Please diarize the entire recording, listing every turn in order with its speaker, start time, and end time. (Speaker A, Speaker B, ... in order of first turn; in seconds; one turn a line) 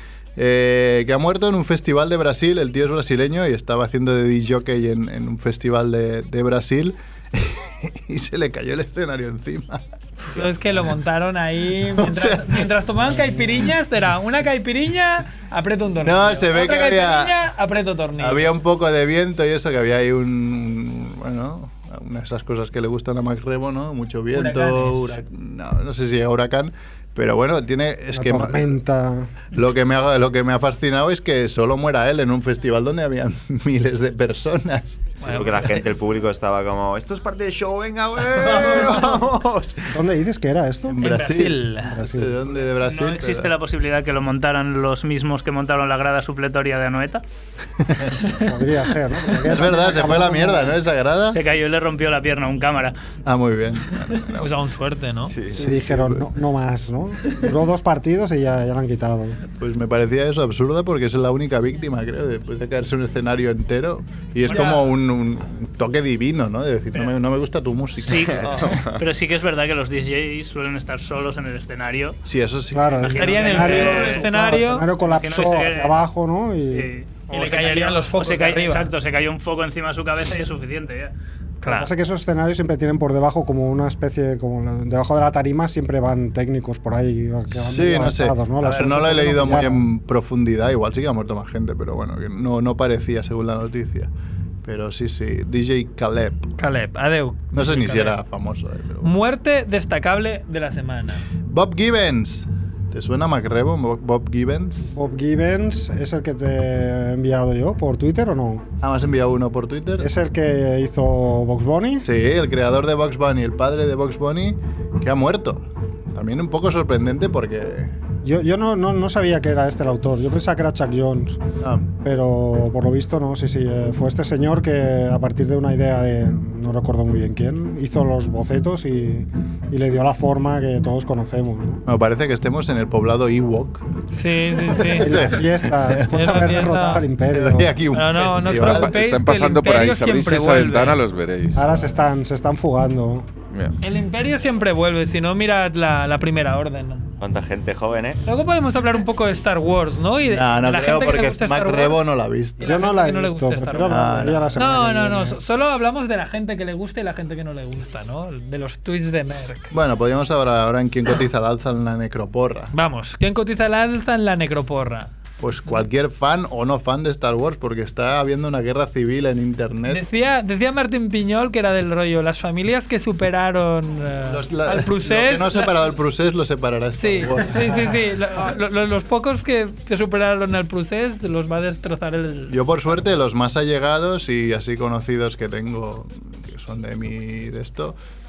Speaker A: 0.3-10.5
Speaker B: 10.3-18.5
Speaker A: 11.8-12.7
Speaker A: 16.0-17.4
Speaker A: 18.2-28.8
Speaker B: 24.3-25.2
Speaker C: 28.1-29.3
Speaker A: 29.5-35.1
Speaker B: 35.2-36.0
Speaker D: 35.2-39.8
Speaker A: 38.3-39.4
Speaker C: 39.9-41.0
Speaker A: 40.9-43.5
Speaker B: 41.0-42.0
Speaker C: 41.9-42.4
Speaker E: 42.7-47.2
Speaker C: 48.4-50.8
Speaker A: 49.4-51.4
Speaker E: 51.3-52.9
Speaker A: 53.2-54.5
Speaker B: 54.4-55.3
Speaker D: 55.3-55.7
Speaker A: 55.5-56.2
Speaker C: 55.5-59.4
Speaker A: 59.6-68.8
Speaker B: 64.5-64.8
Speaker E: 64.5-64.7
Speaker E: 68.0-72.2
Speaker D: 68.3-69.0
Speaker A: 72.2-74.1
Speaker C: 72.7-76.9
Speaker E: 73.0-74.2
Speaker B: 73.2-74.9
Speaker E: 75.0-76.0
Speaker E: 76.7-81.1
Speaker B: 77.3-78.9
Speaker B: 81.6-81.9
Speaker C: 81.6-89.8
Speaker A: 87.5-94.1
Speaker A: 94.6-96.5
Speaker B: 96.6-98.2
Speaker A: 97.5-99.1
Speaker B: 99.0-101.2
Speaker A: 101.5-104.9
Speaker C: 104.8-108.7
Speaker A: 108.8-110.1
Speaker C: 110.0-112.1
Speaker A: 112.0-118.0
Speaker C: 118.2-121.4
Speaker A: 121.6-121.9
Speaker C: 122.0-131.8
Speaker A: 131.8-133.8
Speaker B: 134.1-135.4
Speaker A: 134.7-136.6
Speaker C: 134.8-137.8
Speaker B: 136.0-137.1
Speaker A: 137.3-138.9
Speaker B: 137.9-141.0
Speaker F: 138.5-141.8
Speaker C: 141.6-143.3
Speaker F: 143.5-143.8
Speaker B: 143.8-147.1
Speaker D: 147.2-148.2
Speaker B: 148.2-159.7
Speaker A: 150.3-152.8
Speaker C: 152.6-155.4
Speaker A: 153.8-154.7
Speaker A: 159.7-162.7
Speaker B: 162.7-165.1
Speaker A: 165.4-170.0
Speaker B: 169.9-175.7
Speaker A: 174.3-178.0
Speaker B: 177.0-182.6
Speaker A: 182.5-187.9